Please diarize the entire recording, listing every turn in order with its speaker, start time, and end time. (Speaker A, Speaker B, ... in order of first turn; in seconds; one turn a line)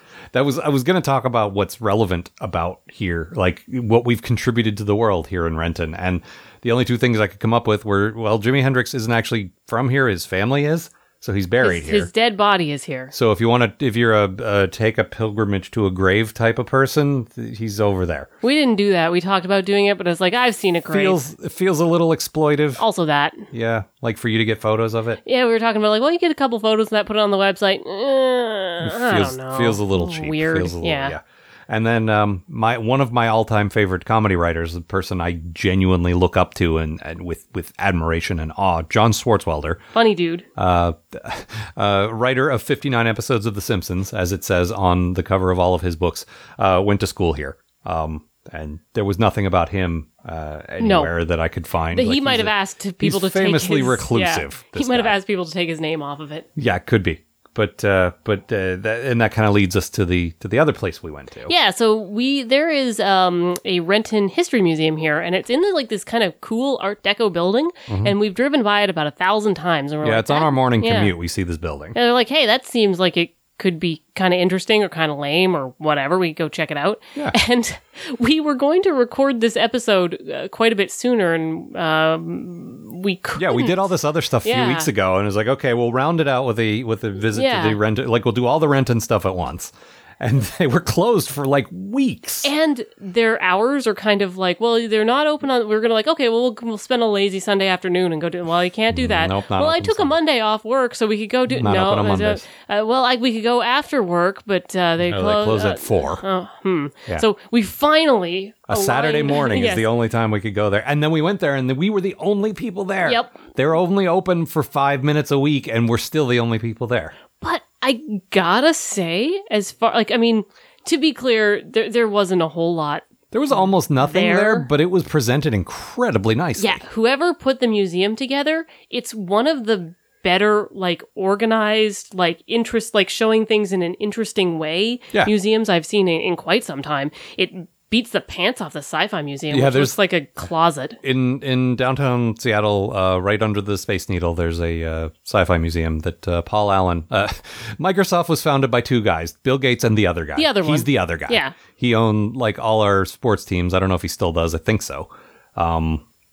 Speaker A: 0.3-12.1
Speaker B: 11.6-13.1
Speaker A: 13.1-18.3
Speaker B: 18.4-21.2
Speaker A: 20.9-22.8
Speaker B: 22.8-23.5
Speaker A: 23.5-25.2
Speaker B: 25.2-31.1
Speaker A: 28.8-39.8
Speaker B: 40.0-40.5
Speaker A: 40.6-55.2
Speaker B: 50.8-51.1
Speaker B: 51.9-56.5
Speaker A: 56.6-61.5
Speaker B: 61.5-71.1
Speaker A: 67.9-68.2
Speaker A: 70.0-72.0
Speaker B: 71.9-83.9
Speaker A: 83.4-92.5
Speaker B: 84.4-84.9
Speaker B: 87.3-87.8
Speaker B: 92.4-109.8
Speaker A: 98.9-100.2
Speaker A: 101.5-102.4
Speaker A: 105.0-106.2
Speaker A: 108.7-117.1
Speaker B: 113.0-113.4
Speaker B: 117.4-124.7
Speaker A: 123.3-126.8
Speaker B: 126.6-141.0
Speaker A: 139.5-139.9
Speaker A: 141.0-156.0
Speaker B: 150.4-151.6